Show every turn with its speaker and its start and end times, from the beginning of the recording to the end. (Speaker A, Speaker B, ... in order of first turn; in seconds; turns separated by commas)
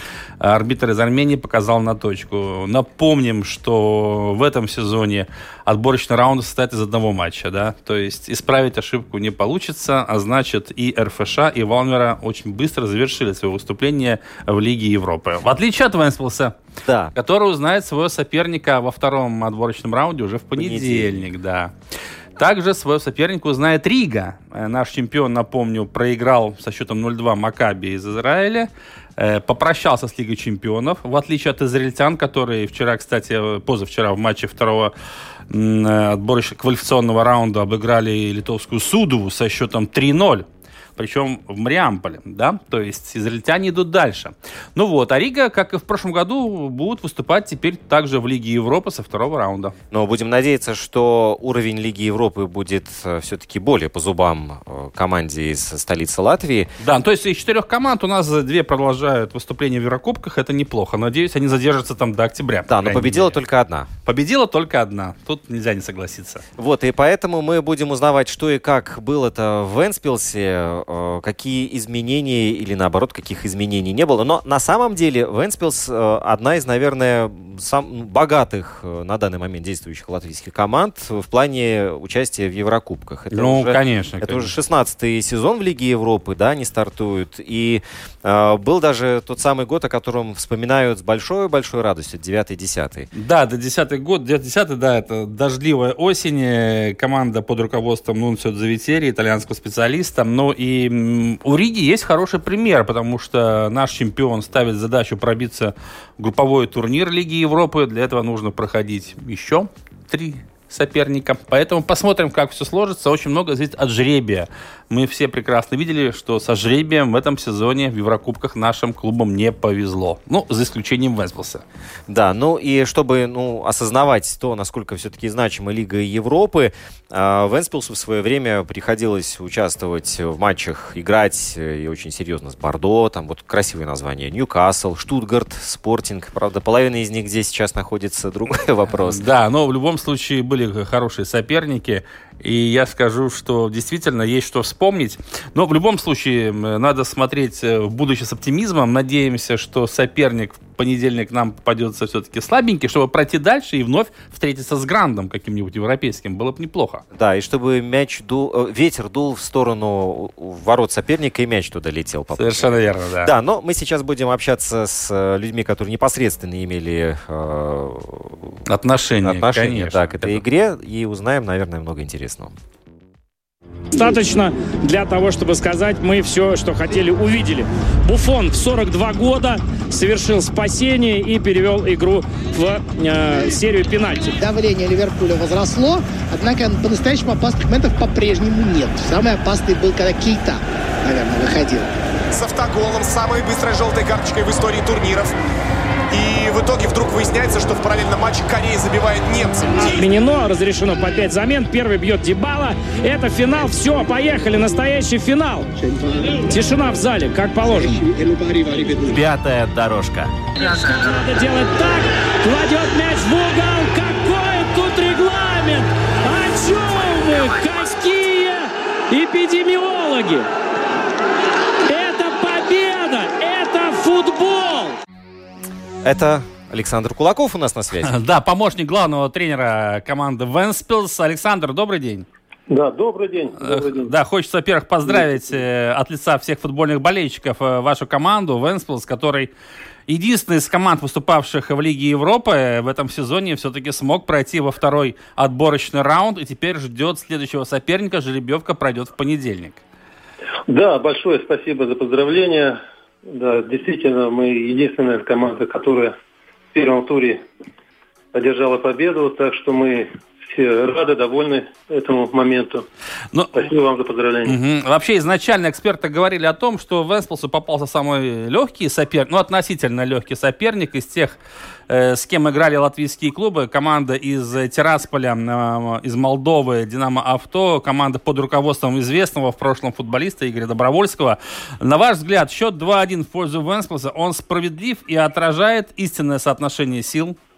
Speaker A: 0.4-16.6, Speaker B: 16.9-17.1, Speaker A: 17.1-21.7, Speaker B: 20.6-21.2, Speaker A: 22.4-34.9, Speaker A: 35.5-40.5, Speaker A: 41.0-49.7, Speaker B: 49.9-56.7, Speaker A: 56.8-63.4, Speaker B: 62.7-63.9, Speaker A: 64.0-66.4, Speaker B: 66.6-93.1, Speaker A: 83.3-84.5, Speaker A: 93.1-121.6, Speaker B: 122.1-139.2, Speaker A: 139.1-157.0, Speaker B: 157.1-168.5, Speaker A: 162.4-163.3, Speaker A: 168.7-170.4, Speaker B: 169.2-172.5, Speaker C: 173.9-184.3, Speaker D: 184.4-191.9, Speaker E: 192.3-195.3, Speaker E: 196.1-200.1, Speaker C: 199.8-205.7, Speaker C: 206.4-208.1, Speaker D: 208.2-208.7, Speaker B: 209.0-210.3, Speaker C: 210.6-220.5, Speaker C: 221.9-225.0, Speaker B: 226.0-228.1, Speaker A: 228.0-232.3, Speaker F: 232.7-234.1, Speaker A: 233.6-239.5, Speaker F: 235.1-235.4, Speaker A: 240.1-249.8, Speaker F: 250.7-256.2, Speaker F: 256.7-257.4, Speaker F: 258.3-262.9, Speaker A: 263.3-263.6, Speaker F: 263.5-264.6, Speaker A: 264.4-271.4, Speaker A: 271.9-287.4